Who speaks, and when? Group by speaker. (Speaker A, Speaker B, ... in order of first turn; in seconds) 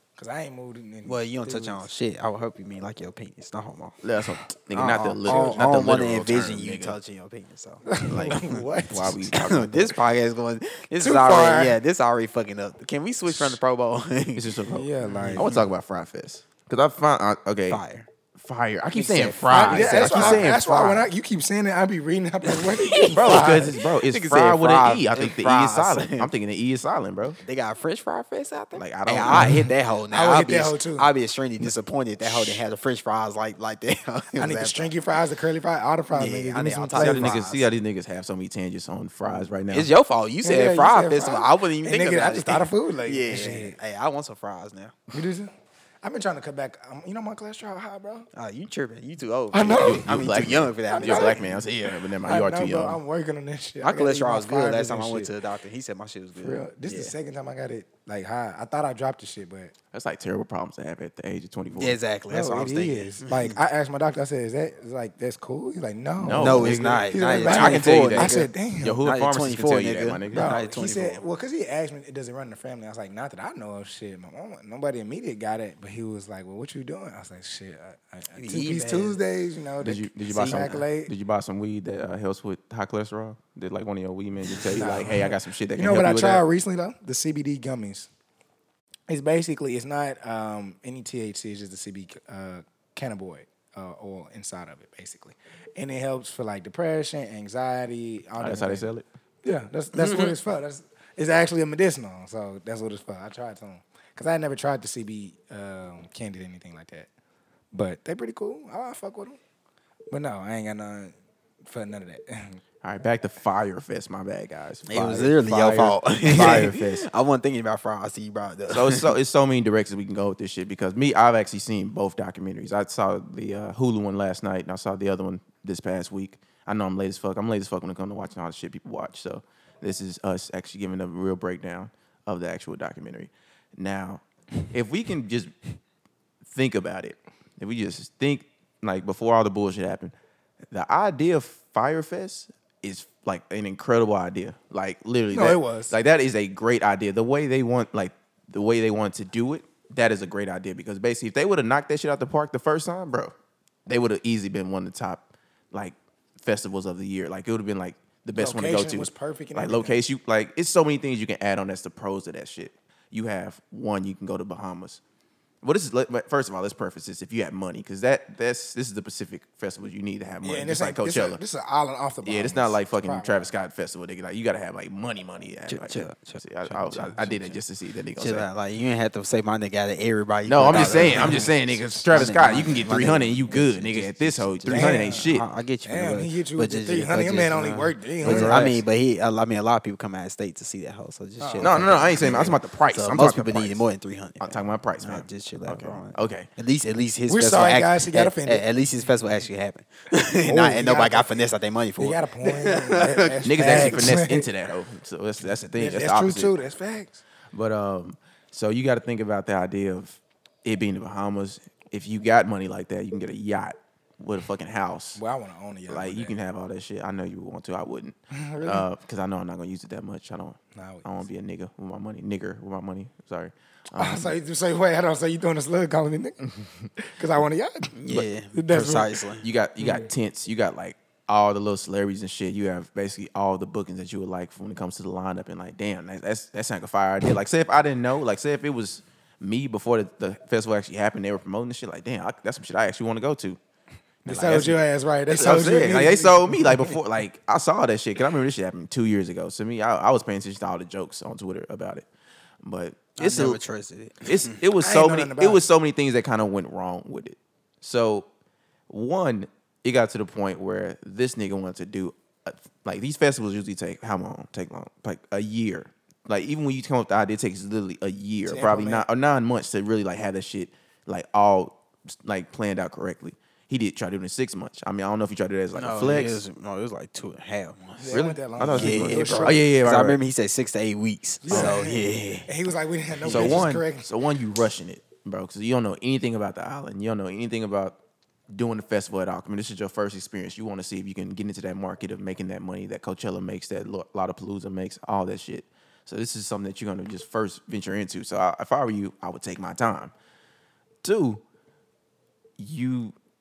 Speaker A: 0.2-1.9, 5.3-5.6, 7.8-9.1, 11.0-11.8, 14.7-15.5, 19.5-23.7, 29.3-31.1, 34.4-37.3, 40.4-43.8, 45.1-45.5, 46.0-48.3, 49.5-50.2, 50.9-51.4, 52.2-55.3, 56.4-59.7, 62.3-69.0, 70.3-81.1, 84.7-88.1, 89.1-98.9, 99.4-107.1, 107.7-109.4, 110.1-111.1, 111.6-112.6, 145.3-145.9, 158.3-160.0, 170.4-173.5, 180.7-181.5, 184.7-185.3, 185.9-188.7, 191.4-191.9, 197.3-198.6, 200.4-201.4, 202.0-204.5, 205.7-207.2, 215.2-216.4, 218.3-218.8, 220.7-221.2, 223.9-226.4, 227.2-227.9, 228.5-229.1, 244.2-247.0, 254.7-255.6, 268.4-269.1, 278.0-279.6, 281.4-284.1
Speaker B: 1.0-4.0, 4.7-7.8, 9.3-14.5, 15.1-15.5, 17.7-18.1, 18.9-20.4, 22.5-26.3, 27.4-34.9, 36.1-37.6, 39.7-44.9, 48.4-52.0, 53.8-57.1, 61.8-63.5, 66.3-71.2, 78.3-79.2, 80.3-80.8, 100.0-100.3, 114.9-119.1, 175.7-177.5, 178.2-181.6, 182.1-204.1, 228.0-229.5, 253.2-254.5, 275.8-282.5, 283.2-283.7
Speaker C: 4.0-7.0, 8.1-10.1, 13.3-13.6, 14.3-17.8, 18.4-21.1, 23.1-27.4, 28.8-29.6, 37.0-39.9, 49.7-53.0, 59.9-62.0, 66.2-70.6, 79.8-86.4, 98.4-99.0, 112.8-117.1, 118.7-135.5, 136.5-140.1, 140.7-153.3, 153.8-165.0, 165.6-171.4, 172.2-178.5, 180.4-185.4, 188.2-188.8, 191.6-193.8, 194.4-196.5, 203.4-206.5, 207.5-215.2, 215.9-224.3, 226.5-227.1, 229.4-243.6, 244.2-252.1, 252.6-253.6, 254.2-258.3, 258.9-276.4, 278.1-280.2, 281.5-281.8, 283.3-288.0, 288.5-300.1, 301.0-301.4, 302.6-303.1